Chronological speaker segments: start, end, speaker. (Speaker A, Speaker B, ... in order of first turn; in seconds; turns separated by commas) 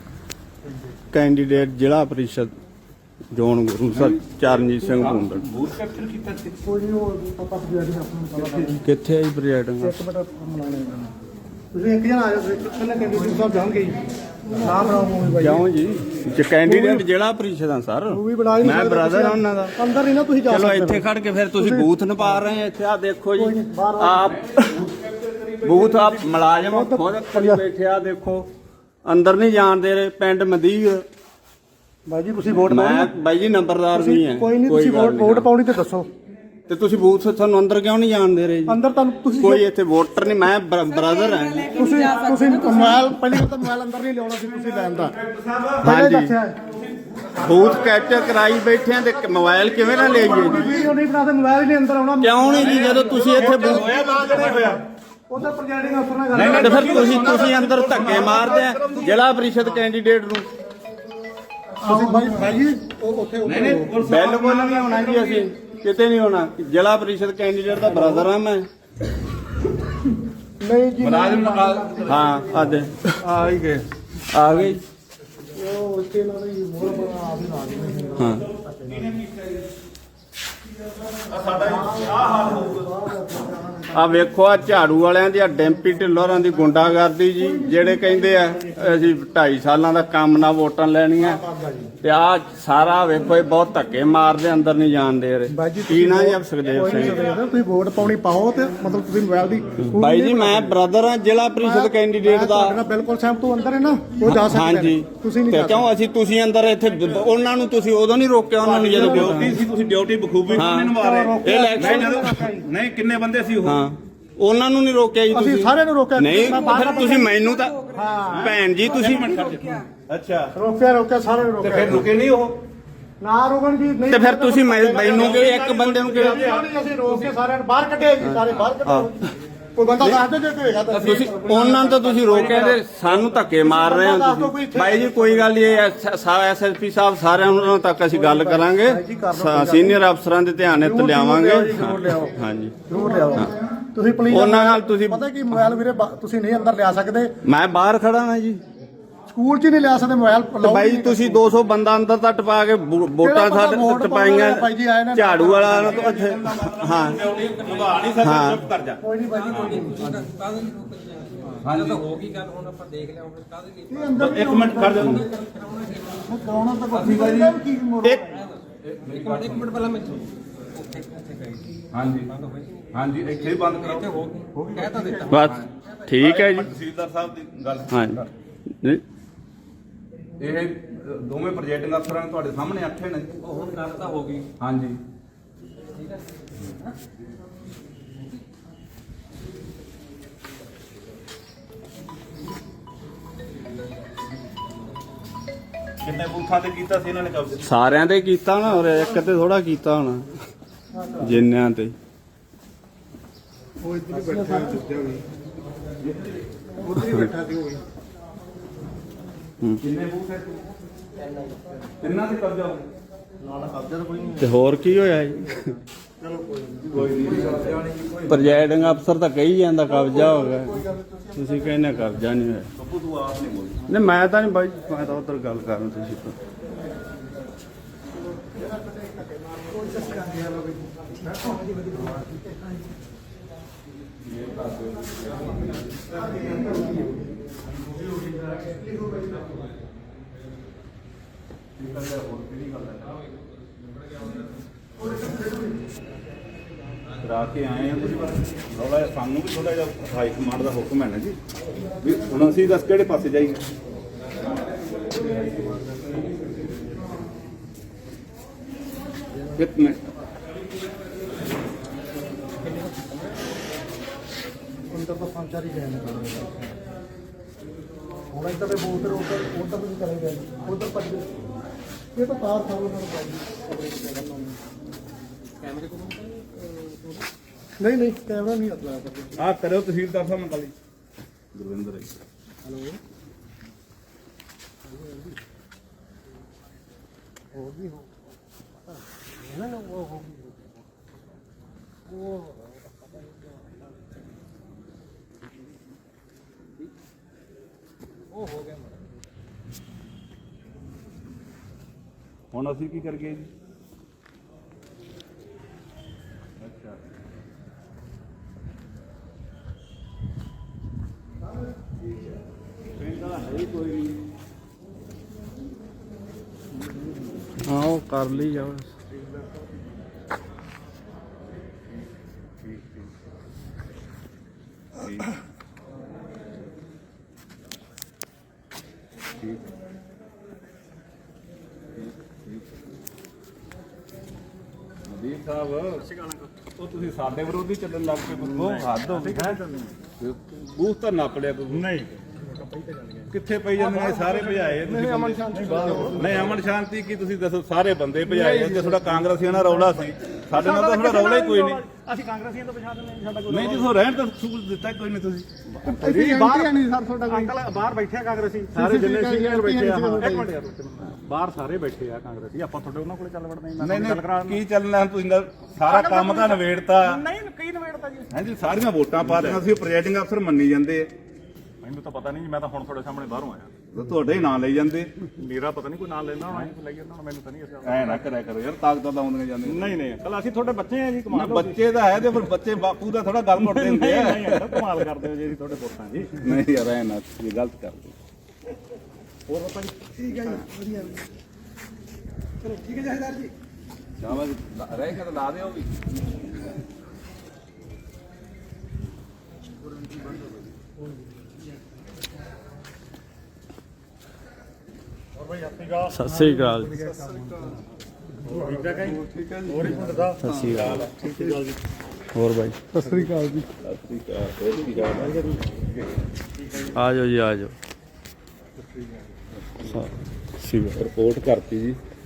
Speaker A: 1.1-2.5, Speaker A: 3.3-5.5, Speaker B: 3.9-6.6, Speaker C: 6.6-8.8, Speaker B: 8.4-8.7, Speaker A: 8.8-9.9, Speaker C: 9.8-11.1, Speaker C: 11.7-14.0, Speaker C: 14.5-15.6, Speaker A: 15.4-19.7, Speaker C: 16.6-17.0, Speaker C: 18.1-21.0, Speaker A: 20.5-24.6, Speaker C: 21.6-22.4, Speaker C: 23.4-24.4, Speaker B: 24.2-26.6, Speaker A: 25.6-28.5, Speaker C: 26.7-27.6, Speaker A: 29.1-31.0, Speaker C: 32.1-33.1, Speaker A: 32.7-35.5, Speaker C: 33.9-36.1, Speaker A: 36.7-38.8, Speaker C: 38.7-39.6, Speaker A: 39.3-41.9, Speaker D: 41.3-43.0, Speaker C: 41.7-45.1, Speaker B: 44.6-45.8, Speaker A: 45.8-46.3, Speaker C: 45.8-46.5, Speaker B: 47.0-48.2, Speaker A: 47.4-50.8, Speaker C: 49.7-59.0, Speaker B: 49.8-50.8, Speaker A: 52.2-53.9, Speaker B: 52.5-54.8, Speaker B: 56.3-59.2, Speaker A: 56.4-60.5, Speaker C: 61.8-63.9, Speaker B: 63.4-65.5, Speaker A: 64.0-68.7, Speaker C: 67.8-68.3, Speaker C: 70.6-72.8, Speaker B: 71.0-72.4, Speaker A: 72.1-72.9, Speaker B: 73.3-73.6, Speaker A: 74.3-74.8, Speaker C: 75.5-79.1, Speaker A: 78.2-78.5, Speaker B: 78.8-79.5, Speaker B: 81.2-83.0, Speaker C: 81.5-84.3, Speaker A: 83.9-91.4, Speaker C: 87.4-89.0, Speaker C: 91.2-91.9, Speaker A: 92.0-97.3, Speaker C: 95.5-100.8, Speaker A: 99.9-102.8, Speaker C: 101.6-105.9, Speaker A: 104.2-109.6, Speaker C: 108.6-109.6, Speaker B: 108.8-113.8, Speaker C: 110.5-112.7, Speaker A: 110.5-112.1, Speaker A: 113.6-119.4, Speaker C: 115.3-117.3, Speaker C: 117.9-118.6, Speaker B: 118.3-120.5, Speaker D: 119.0-119.8, Speaker C: 120.5-122.1, Speaker B: 121.6-122.6, Speaker C: 123.2-135.6, Speaker A: 124.1-126.5, Speaker B: 125.0-126.7, Speaker A: 128.2-129.1, Speaker A: 130.9-143.5, Speaker C: 138.1-140.0, Speaker C: 140.8-142.3, Speaker C: 142.9-147.3, Speaker A: 144.3-145.2, Speaker A: 147.4-148.6, Speaker C: 149.3-151.6, Speaker A: 150.6-157.2, Speaker C: 153.2-156.0, Speaker B: 155.6-159.8, Speaker A: 158.2-158.6, Speaker C: 159.0-160.3, Speaker D: 159.4-164.0, Speaker B: 161.6-162.0, Speaker C: 163.9-165.3, Speaker B: 164.2-165.3, Speaker D: 165.0-166.2, Speaker C: 166.2-168.5, Speaker B: 166.9-167.6, Speaker A: 168.0-168.3, Speaker B: 168.8-169.7, Speaker D: 169.1-170.2, Speaker D: 170.7-172.8, Speaker B: 171.9-172.3, Speaker B: 172.9-174.2, Speaker D: 173.5-175.3, Speaker E: 174.6-175.4, Speaker A: 175.3-176.7, Speaker B: 175.4-178.3, Speaker A: 177.9-178.2, Speaker B: 180.4-183.4, Speaker D: 183.4-184.5, Speaker B: 184.6-185.0, Speaker B: 196.0-197.7, Speaker A: 197.6-200.3, Speaker C: 200.9-201.4, Speaker A: 201.2-201.9, Speaker C: 203.8-205.2, Speaker E: 204.1-205.0, Speaker B: 206.0-206.4, Speaker C: 206.8-207.8, Speaker B: 209.8-210.7, Speaker B: 212.0-212.9, Speaker C: 213.4-214.4, Speaker A: 214.4-215.7, Speaker C: 216.2-217.0, Speaker B: 216.8-217.9, Speaker A: 218.2-220.8, Speaker C: 219.9-221.7, Speaker A: 221.3-222.7, Speaker B: 222.8-223.8, Speaker A: 223.9-226.3, Speaker C: 228.5-230.6, Speaker D: 230.1-230.5, Speaker C: 231.2-232.2, Speaker B: 234.2-235.9, Speaker C: 236.4-237.1, Speaker B: 241.8-243.2, Speaker B: 247.2-251.4, Speaker B: 252.0-253.6, Speaker B: 259.5-260.0, Speaker C: 264.9-266.7, Speaker C: 268.3-271.3, Speaker C: 272.1-274.6, Speaker D: 275.6-277.2, Speaker C: 277.8-279.4, Speaker B: 279.4-280.7, Speaker B: 281.5-282.2, Speaker D: 289.6-290.3, Speaker B: 302.5-303.5, Speaker B: 306.6-307.0, Speaker B: 312.9-314.2, Speaker A: 317.6-318.9, Speaker B: 322.6-323.0, Speaker B: 325.0-325.4, Speaker B: 332.0-332.6, Speaker B: 335.1-336.1, Speaker E: 336.1-336.5, Speaker B: 336.8-339.6, Speaker E: 338.4-340.0, Speaker B: 340.2-341.9, Speaker E: 341.7-343.3, Speaker B: 343.3-351.8, Speaker E: 344.1-346.4, Speaker C: 344.9-346.4, Speaker E: 348.3-349.2, Speaker E: 350.6-353.9, Speaker B: 353.5-355.5, Speaker E: 355.8-364.6, Speaker C: 355.8-357.5, Speaker C: 358.7-360.5, Speaker B: 363.8-367.2, Speaker E: 365.8-368.4, Speaker B: 368.3-371.1, Speaker E: 369.2-369.6, Speaker E: 371.8-373.7, Speaker B: 373.9-375.1, Speaker E: 375.4-378.2, Speaker B: 377.8-380.0, Speaker E: 379.6-381.8, Speaker B: 381.3-384.9, Speaker E: 383.6-386.4, Speaker B: 386.3-388.1, Speaker E: 389.5-391.1, Speaker E: 392.7-393.5, Speaker B: 394.2-396.0, Speaker E: 405.4-406.2, Speaker C: 405.8-407.5, Speaker A: 406.1-407.0, Speaker E: 407.0-407.8, Speaker C: 408.4-410.4, Speaker E: 408.4-411.7, Speaker A: 410.4-411.1, Speaker B: 410.5-411.1, Speaker C: 411.1-411.7, Speaker A: 412.3-412.8, Speaker C: 412.9-413.6, Speaker E: 413.0-413.3, Speaker B: 413.8-415.4, Speaker E: 415.1-415.6, Speaker A: 416.9-417.7, Speaker E: 418.8-419.2, Speaker A: 419.8-420.9, Speaker B: 420.8-422.0